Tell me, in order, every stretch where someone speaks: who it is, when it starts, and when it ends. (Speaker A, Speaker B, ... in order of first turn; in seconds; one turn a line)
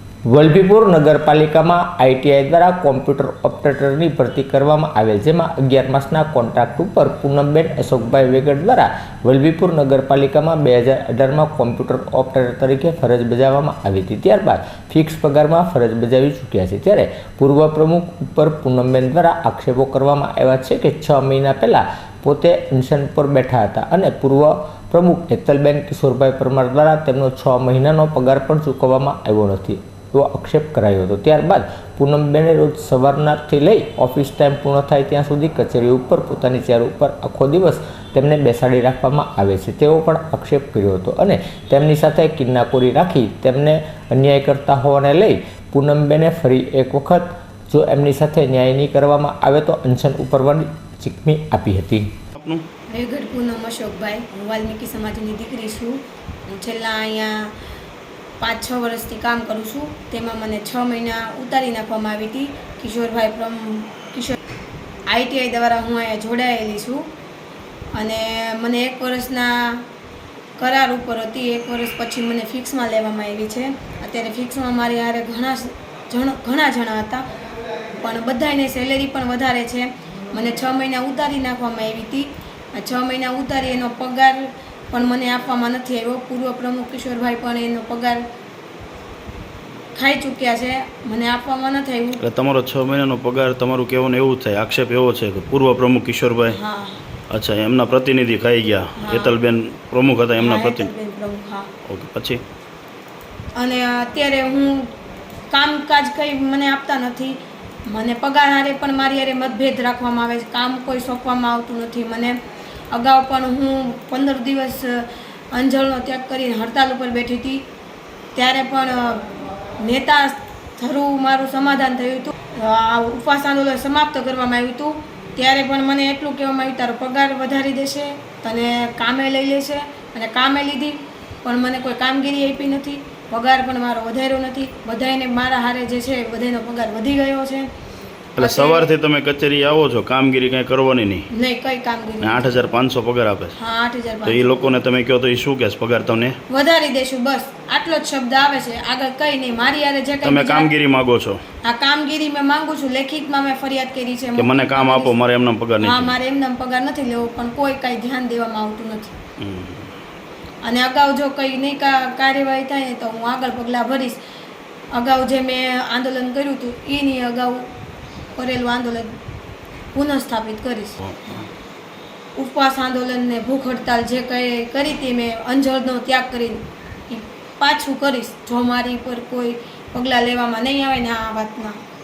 Speaker A: 0.2-52.1
Speaker B: 52.3-52.6
Speaker C: 52.9-57.5
Speaker C: 58.4-64.3
Speaker C: 65.1-67.1
Speaker C: 68.0-69.8
Speaker C: 70.6-77.2
Speaker C: 78.0-88.2
Speaker C: 89.9-92.2
Speaker B: 92.2-96.6
Speaker C: 96.5-97.0
Speaker B: 97.3-100.9
Speaker C: 99.0-99.3
Speaker C: 100.4-101.7
Speaker B: 101.8-102.4
Speaker C: 103.5-104.9
Speaker C: 105.5-112.4
Speaker C: 112.9-117.6
Speaker C: 118.3-137.7
Speaker B: 138.4-141.3
Speaker C: 138.4-138.9
Speaker C: 141.3-142.6
Speaker B: 142.2-143.6
Speaker C: 143.6-144.4
Speaker B: 144.2-146.4
Speaker C: 146.5-150.7
Speaker B: 150.2-151.4
Speaker C: 151.6-155.1
Speaker B: 154.4-156.1
Speaker C: 155.8-159.1
Speaker B: 159.4-159.9
Speaker C: 160.6-164.2
Speaker C: 164.9-167.7
Speaker C: 168.3-169.2
Speaker C: 169.9-171.0
Speaker B: 171.0-171.5
Speaker C: 172.4-181.8